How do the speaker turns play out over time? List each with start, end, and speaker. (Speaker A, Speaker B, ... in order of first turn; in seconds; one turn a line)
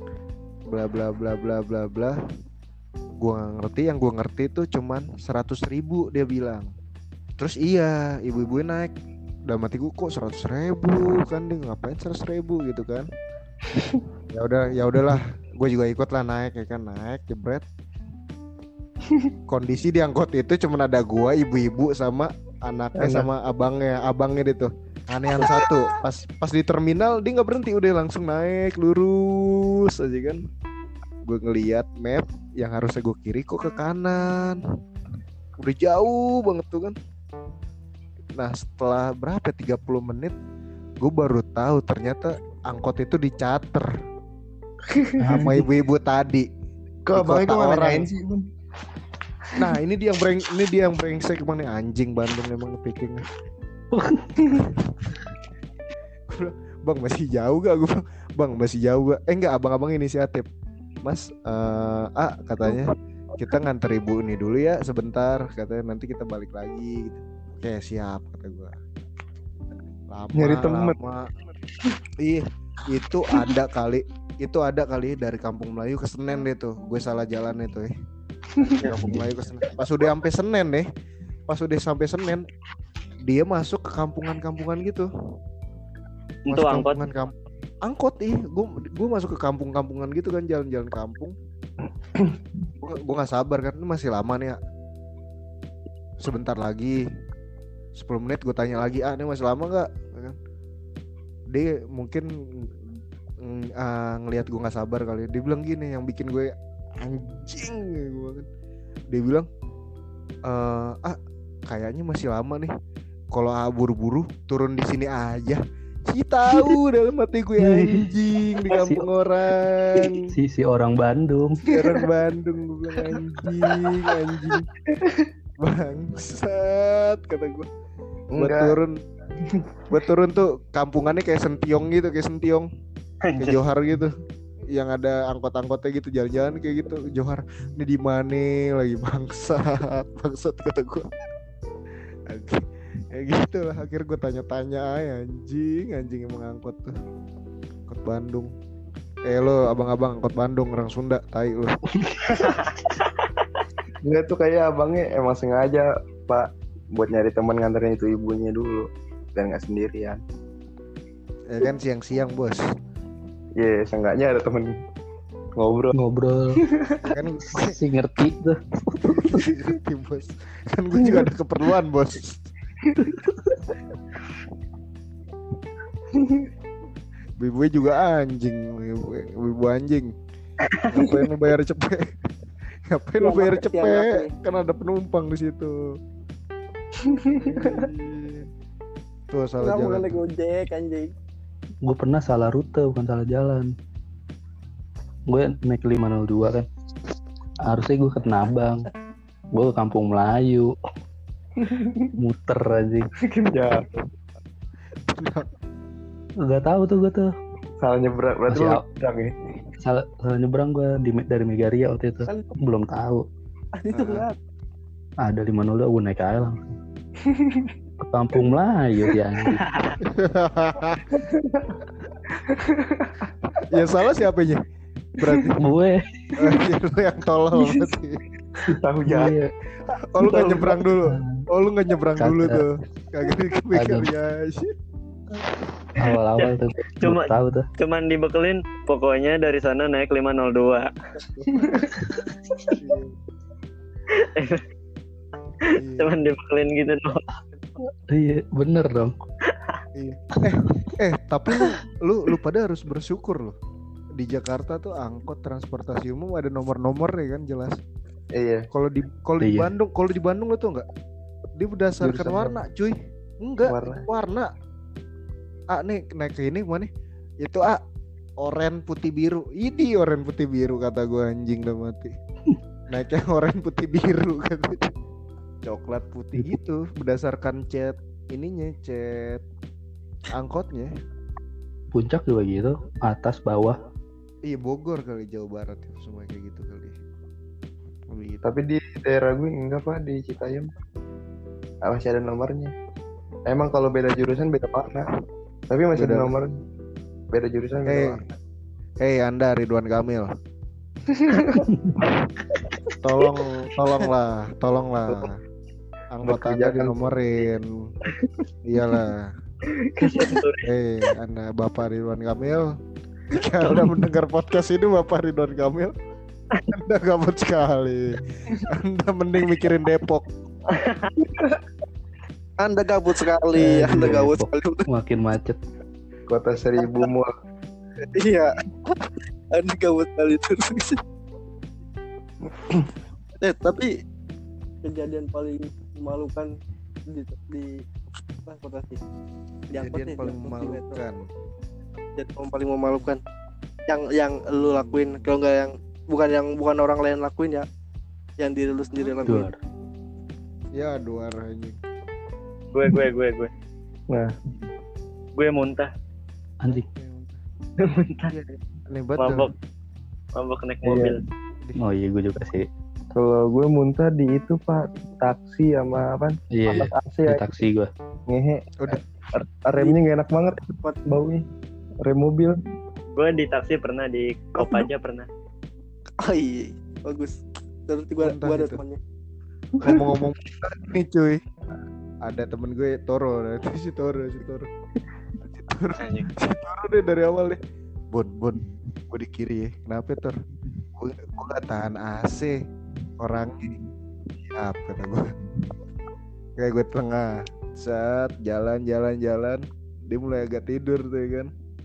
Speaker A: 0.7-2.1
Speaker A: 3.2-6.7
Speaker A: 7.4-8.9
Speaker A: 9.5-13.1
Speaker B: 13.7-14.0
Speaker A: 14.3-17.6
Speaker A: 19.5-30.4
Speaker B: 23.0-23.3
Speaker A: 31.2-34.6
Speaker A: 35.6-36.9
Speaker A: 38.4-40.3
Speaker A: 41.0-43.9
Speaker B: 44.9-45.2
Speaker C: 45.2-45.6
Speaker A: 45.2-46.5
Speaker B: 47.0-48.4
Speaker A: 47.1-48.1
Speaker A: 49.5-53.2
Speaker C: 53.9-54.5
Speaker A: 54.5-55.2
Speaker A: 56.3-60.4
Speaker A: 61.0-68.8
Speaker A: 70.1-71.3
Speaker B: 70.3-71.0
Speaker A: 72.2-77.9
Speaker B: 78.6-79.2
Speaker A: 78.8-80.8
Speaker A: 81.5-82.5
Speaker A: 83.2-85.1
Speaker D: 86.5-87.0
Speaker A: 86.5-87.3
Speaker A: 87.8-91.3
Speaker A: 92.8-94.6
Speaker A: 96.2-97.0
Speaker A: 97.9-100.4
Speaker A: 101.5-102.7
Speaker A: 103.4-108.5
Speaker A: 109.1-109.5
Speaker A: 110.5-111.2
Speaker A: 111.7-112.7
Speaker A: 113.3-120.2
Speaker C: 117.6-118.1
Speaker C: 118.7-119.1
Speaker C: 119.9-121.6
Speaker A: 121.7-124.7
Speaker B: 124.1-125.3
Speaker A: 125.6-127.7
Speaker B: 128.3-128.8
Speaker A: 128.4-128.9
Speaker B: 129.4-130.0
Speaker A: 129.9-132.7
Speaker D: 133.3-133.6
Speaker A: 133.4-134.1
Speaker A: 134.7-141.1
Speaker A: 142.3-146.9
Speaker A: 147.9-148.5
Speaker A: 149.3-151.8
Speaker B: 154.0-160.2
Speaker A: 161.5-162.6
Speaker B: 163.6-164.7
Speaker B: 165.6-165.9
Speaker C: 165.9-166.6
Speaker A: 167.0-167.8
Speaker C: 167.5-168.6
Speaker A: 169.1-172.5
Speaker C: 173.0-173.5
Speaker B: 176.1-176.4
Speaker A: 177.4-180.1
Speaker A: 180.9-182.1
Speaker A: 182.9-185.7
Speaker E: 183.2-184.3
Speaker E: 187.3-187.8
Speaker A: 187.4-188.5
Speaker A: 189.3-190.2
Speaker E: 189.6-191.1
Speaker C: 191.8-193.7
Speaker C: 195.3-196.7
Speaker C: 197.6-198.8
Speaker C: 199.5-200.7
Speaker B: 201.6-202.1
Speaker C: 202.2-203.1
Speaker B: 203.3-204.1
Speaker A: 205.1-205.5
Speaker C: 206.4-207.3
Speaker B: 207.8-209.3
Speaker C: 208.5-208.8
Speaker C: 209.8-213.2
Speaker E: 212.2-212.6
Speaker E: 213.8-214.4
Speaker A: 213.9-214.2
Speaker C: 215.2-216.7
Speaker B: 217.2-217.7
Speaker C: 218.0-219.7
Speaker A: 220.0-221.2
Speaker B: 221.1-223.8
Speaker A: 223.7-224.6
Speaker A: 225.2-225.6
Speaker C: 225.6-226.6
Speaker A: 226.4-228.2
Speaker B: 228.6-229.3
Speaker C: 229.0-229.5
Speaker A: 229.9-234.7
Speaker B: 230.3-230.5
Speaker C: 230.4-231.4
Speaker C: 232.2-232.6
Speaker C: 233.7-234.1
Speaker C: 235.4-237.7
Speaker D: 236.4-240.9
Speaker B: 241.6-241.9
Speaker C: 242.0-242.3
Speaker A: 242.8-243.1
Speaker D: 244.1-244.6
Speaker D: 245.7-247.2
Speaker A: 245.7-246.1
Speaker C: 248.1-249.2
Speaker A: 249.9-253.6
Speaker A: 254.2-257.8
Speaker B: 258.4-258.7
Speaker A: 258.7-260.9
Speaker C: 259.4-259.7
Speaker A: 261.6-264.5
Speaker B: 262.0-262.6
Speaker B: 263.6-264.1
Speaker A: 265.7-266.9
Speaker A: 267.4-267.8
Speaker A: 268.4-272.1
Speaker A: 272.9-274.9
Speaker A: 275.6-279.4
Speaker A: 280.3-280.9
Speaker C: 281.9-283.8
Speaker A: 284.4-286.9
Speaker A: 288.1-288.4
Speaker B: 288.4-290.7
Speaker B: 291.8-292.7
Speaker B: 293.5-295.1
Speaker B: 295.7-296.5
Speaker A: 295.9-296.3
Speaker B: 297.3-298.2
Speaker A: 297.9-298.2
Speaker A: 299.0-300.3
Speaker B: 301.1-301.7
Speaker A: 303.0-305.4
Speaker A: 306.1-307.9
Speaker B: 306.2-307.0
Speaker A: 308.6-309.3
Speaker D: 309.9-310.7
Speaker B: 310.0-310.3
Speaker A: 310.6-312.7
Speaker A: 313.3-315.9
Speaker A: 316.7-320.3
Speaker D: 320.7-321.1
Speaker E: 322.6-324.8
Speaker C: 323.5-325.6
Speaker B: 326.3-327.3
Speaker E: 328.0-331.0
Speaker E: 333.4-333.9
Speaker E: 334.8-336.5
Speaker E: 337.1-337.8
Speaker E: 338.4-339.0
Speaker E: 339.7-341.0
Speaker A: 339.7-341.2
Speaker E: 342.1-343.2
Speaker E: 343.9-347.6
Speaker E: 348.4-349.5
Speaker C: 349.2-349.6
Speaker A: 350.7-351.8
Speaker D: 352.7-353.5
Speaker D: 355.4-355.9
Speaker C: 356.6-356.9
Speaker A: 356.7-357.4
Speaker D: 357.8-358.3
Speaker A: 358.3-359.5
Speaker D: 359.2-359.5
Speaker D: 360.4-361.2
Speaker B: 360.8-361.1
Speaker C: 361.8-362.7
Speaker B: 363.1-367.6
Speaker C: 366.5-367.9
Speaker B: 368.3-371.4
Speaker E: 370.7-371.0
Speaker B: 372.0-372.6
Speaker D: 373.1-375.3
Speaker E: 376.2-379.0
Speaker A: 378.2-378.8
Speaker B: 379.8-380.1
Speaker A: 379.8-381.4
Speaker A: 382.2-384.7
Speaker A: 385.4-387.6
Speaker A: 388.1-390.4
Speaker A: 391.0-392.6
Speaker A: 393.2-393.8
Speaker A: 394.5-395.3
Speaker A: 396.6-401.5